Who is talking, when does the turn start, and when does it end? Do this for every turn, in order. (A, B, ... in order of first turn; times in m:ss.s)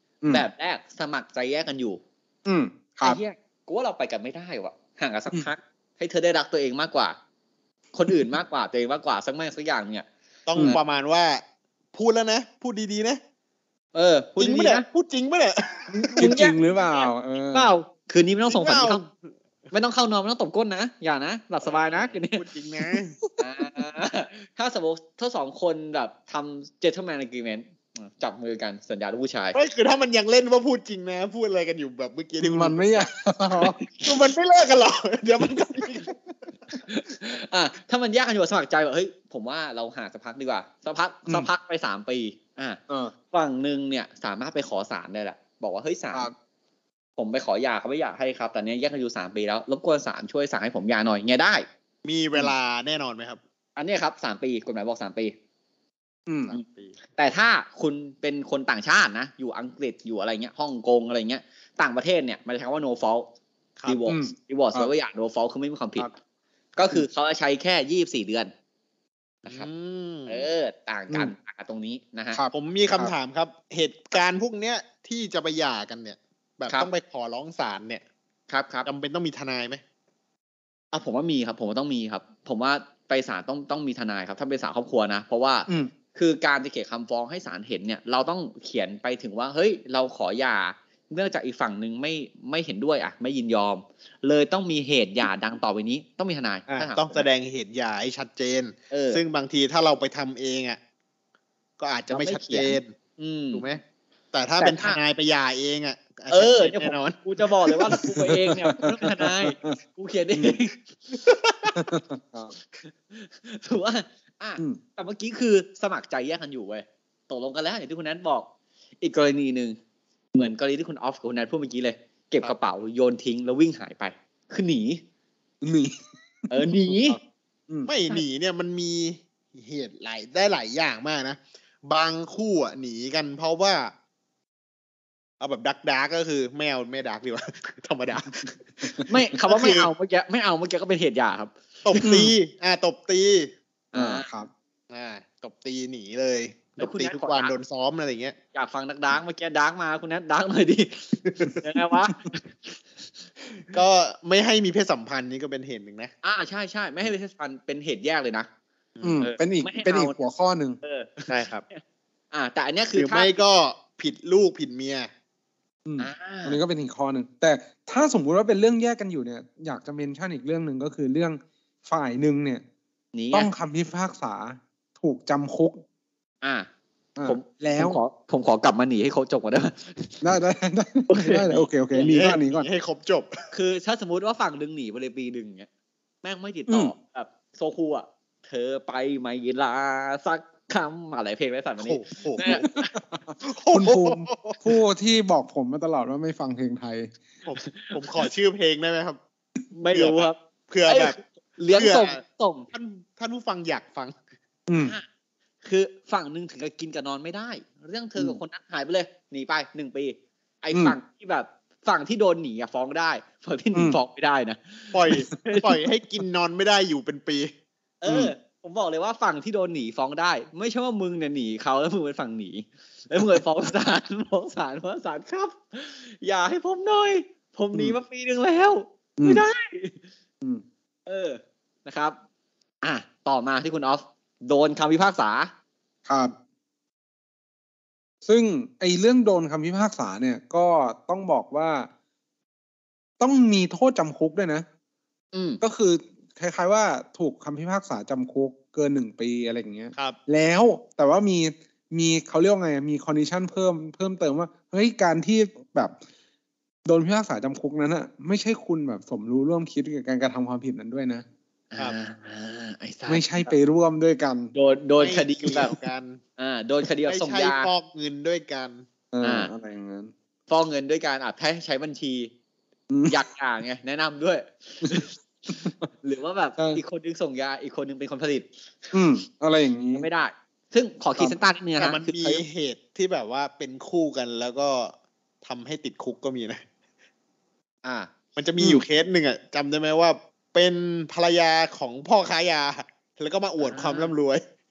0:00.3-0:02.0 A
0:02.4-0:03.2 B
0:03.0-0:07.2 A
0:07.9-0:10.1 A
0:10.5-0:11.4 C
0:11.9-0:13.2 C
0:13.9-0:14.8 A
0:14.4-0:16.4 C
0:16.0-0:16.6 A
0:16.2-0:17.7 B
0:17.5-0:19.0 A
0:18.5-0:19.1 C
0:19.7-0:22.4 A
0:21.6-0:23.2 C
0:23.4-0:29.6 A
0:29.5-0:33.1 C
0:32.4-0:33.8 B
0:33.8-0:34.1 A
0:34.0-0:36.2 C
0:36.8-0:42.8 A
0:43.3-0:46.3 A
0:47.2-0:51.7 A
0:52.0-0:53.4 C
0:53.8-0:55.4 A
0:56.3-0:56.5 B
0:56.5-0:57.0 C
0:57.2-1:03.3 A
1:03.9-1:06.1 A
1:04.1-1:04.9 B
1:06.8-1:08.5 A
1:09.5-1:10.5 C
1:10.3-1:12.4 A
1:12.3-1:13.1 B
1:12.5-1:18.0 C
1:18.5-1:18.9 A
1:18.9-1:19.8 C
1:20.9-1:37.2 A
1:36.7-1:40.8 C
1:38.9-1:39.2 A
1:41.8-1:42.9 C
1:42.1-1:43.6 A
1:43.5-1:43.8 C
1:44.3-1:48.0 C
1:44.6-1:45.0 A
1:46.3-1:50.8 A
1:48.3-1:49.8 B
1:51.2-1:51.8 C
1:51.7-1:52.5 B
1:52.7-1:58.5 A
1:59.0-1:59.8 A
2:00.3-2:05.0 A
2:05.6-2:07.9 B
2:06.5-2:07.2 A
2:07.9-2:13.9 C
2:15.4-2:19.9 C
2:19.1-2:22.0 A
2:21.8-2:23.5 C
2:22.0-2:22.3 B
2:23.9-2:24.3 A
2:23.9-2:24.5 B
2:24.9-2:28.4 C
2:26.8-2:27.6 A
2:28.5-2:32.8 A
2:31.3-2:31.5 C
2:33.7-2:36.1 C
2:36.2-2:38.5 A
2:39.0-2:40.8 B
2:39.2-2:40.2 A
2:40.8-2:43.3 A
2:41.3-2:41.6 C
2:43.0-2:45.1 C
2:45.9-2:52.6 B
2:46.0-2:46.6 A
2:53.1-2:53.5 A
2:53.3-2:55.8 B
2:56.4-2:56.7 A
2:57.2-2:58.0 B
2:57.2-3:00.2 A
3:00.2-3:02.7 B
3:01.1-3:01.6 A
3:01.9-3:03.3 C
3:03.5-3:05.7 A
3:06.2-3:13.0 A
3:06.7-3:06.9 B
3:11.8-3:12.7 C
3:12.4-3:17.1 B
3:13.4-3:14.6 C
3:17.4-3:19.2 C
3:17.6-3:18.1 A
3:19.7-3:20.4 A
3:19.9-3:21.2 C
3:20.9-3:22.7 A
3:21.7-3:22.2 C
3:22.7-3:24.2 C
3:24.7-3:25.0 B
3:25.6-3:35.7 A
3:33.7-3:34.0 B
3:34.9-3:37.5 C
3:38.0-3:50.0 A
3:38.1-3:38.3 B
3:49.2-3:49.4 B
3:51.1-3:52.2 A
3:52.8-3:55.5 A
3:56.1-3:56.3 B
3:58.2-4:01.9 B
4:03.2-4:04.7 B
4:05.3-4:05.6 A
4:05.6-4:16.0 B
4:16.9-4:21.3 B
4:21.7-4:23.5 A
4:23.1-4:24.5 B
4:24.5-4:25.8 A
4:25.0-4:26.2 C
4:26.4-4:27.7 A
4:27.1-4:28.8 C
4:29.1-4:30.1 B
4:29.2-4:29.5 A
4:30.5-4:32.3 A
4:32.9-4:33.2 B
4:33.1-4:38.9 A
4:38.9-4:40.1 B
4:39.9-4:42.4 A
4:41.8-4:46.6 C
4:47.8-4:48.1 A
4:48.4-4:54.4 C
4:53.6-4:54.1 A